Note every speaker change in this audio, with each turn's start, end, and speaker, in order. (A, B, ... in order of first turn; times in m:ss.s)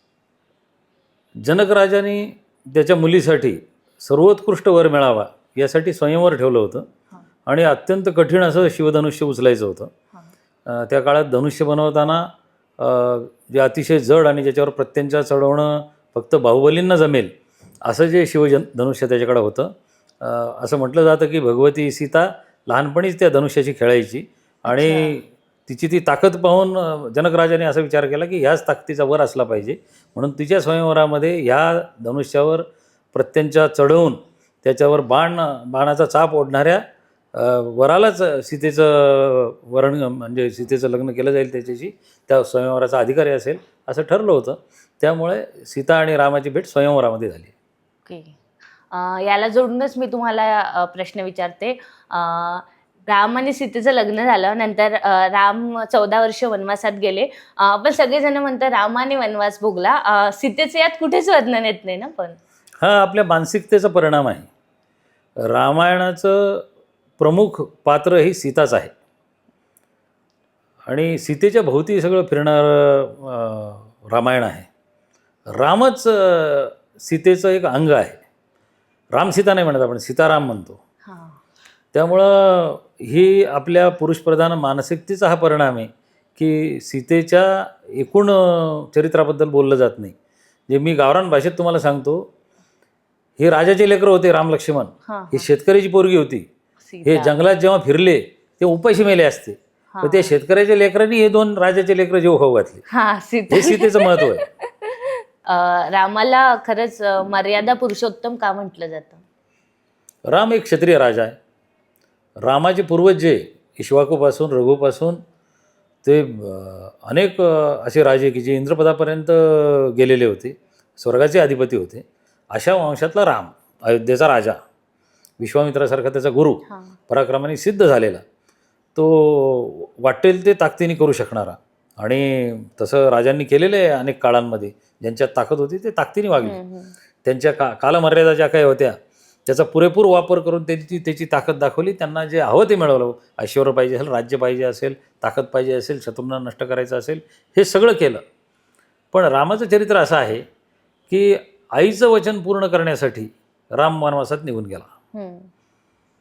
0:01.4-0:06.8 A
0:07.4-0:09.9 A
0:10.6-0:12.3 A
0:12.8-0:17.3 A
0:17.8-0:36.8 A
0:24.7-0:25.2 B
0:37.3-0:47.5 A
0:48.0-0:48.4 B
0:48.9-1:02.4 B
1:02.8-1:04.5 A
1:05.4-1:06.6 A
1:07.2-1:08.9 A
1:10.9-1:14.7 A
1:15.5-1:18.2 A
1:19.1-1:20.8 A
1:21.1-1:21.4 B
1:21.9-1:30.1 A
1:30.7-1:32.2 A
1:33.4-1:36.5 A
1:35.1-1:35.4 B
1:36.8-1:37.3 B
1:37.0-1:42.8 A
1:39.9-1:40.3 B
1:42.9-1:49.2 B
1:43.5-1:44.4 A
1:50.3-1:51.3 A
1:52.4-1:55.2 A
1:56.0-2:04.6 A
2:05.4-2:08.2 A
2:06.7-2:06.9 B
2:08.9-2:16.6 A
2:16.4-2:16.9 B
2:17.2-2:18.9 A
2:19.4-2:28.2 A
2:29.1-2:30.4 A
2:31.1-2:34.9 A
2:35.1-2:35.5 B